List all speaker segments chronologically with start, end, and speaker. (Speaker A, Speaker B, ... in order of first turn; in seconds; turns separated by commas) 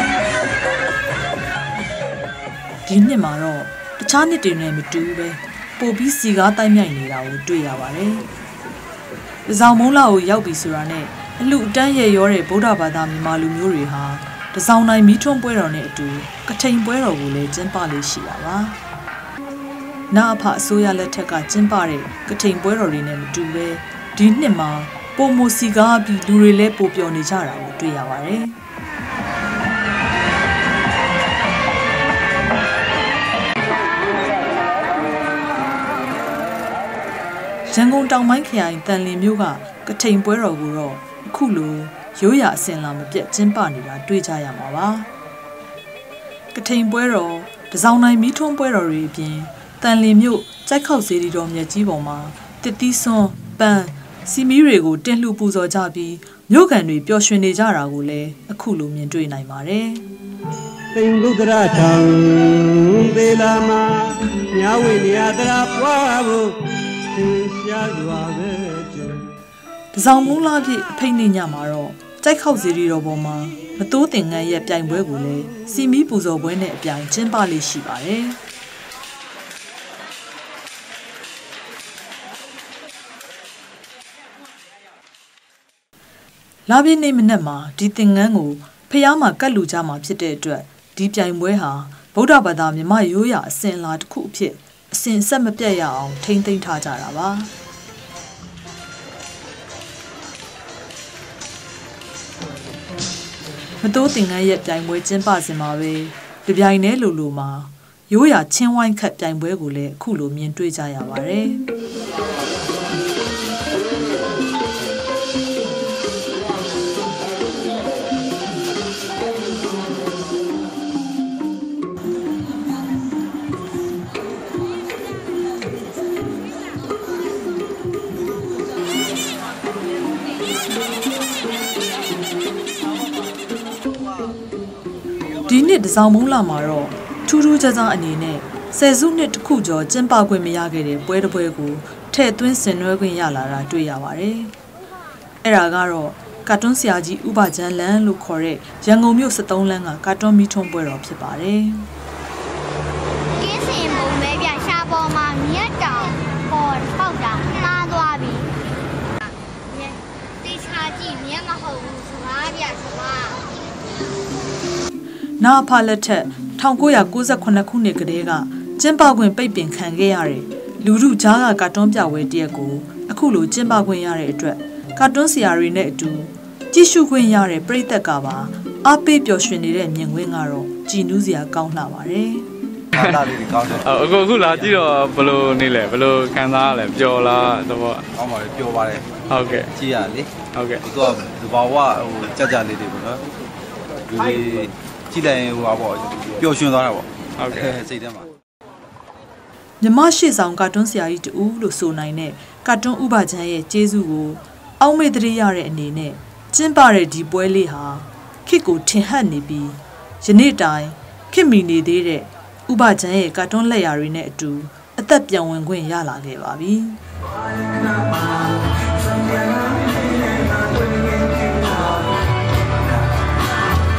Speaker A: 2.9-8.3, Speaker A: 9.4-18.8, Speaker A: 20.1-28.6, Speaker A: 37.6-45.1, Speaker A: 46.5-60.0, Speaker B: 60.9-66.6, Speaker B: 67.1-69.2, Speaker A: 69.9-78.4, Speaker A: 86.7-97.5, Speaker A: 103.8-111.6, Speaker A: 135.4-144.5, Speaker A: 145.4-151.9, Speaker C: 153.3-158.5, Speaker C: 159.2-163.4, Speaker A: 165.4-182.5, Speaker D: 182.9-184.7, Speaker E: 183.8-188.0, Speaker D: 188.1-189.1, Speaker E: 189.3-189.7, Speaker D: 189.7-190.3, Speaker E: 190.5-190.8, Speaker D: 190.8-193.2, Speaker D: 194.1-198.3, Speaker E: 197.4-197.7, Speaker A: 199.8-217.0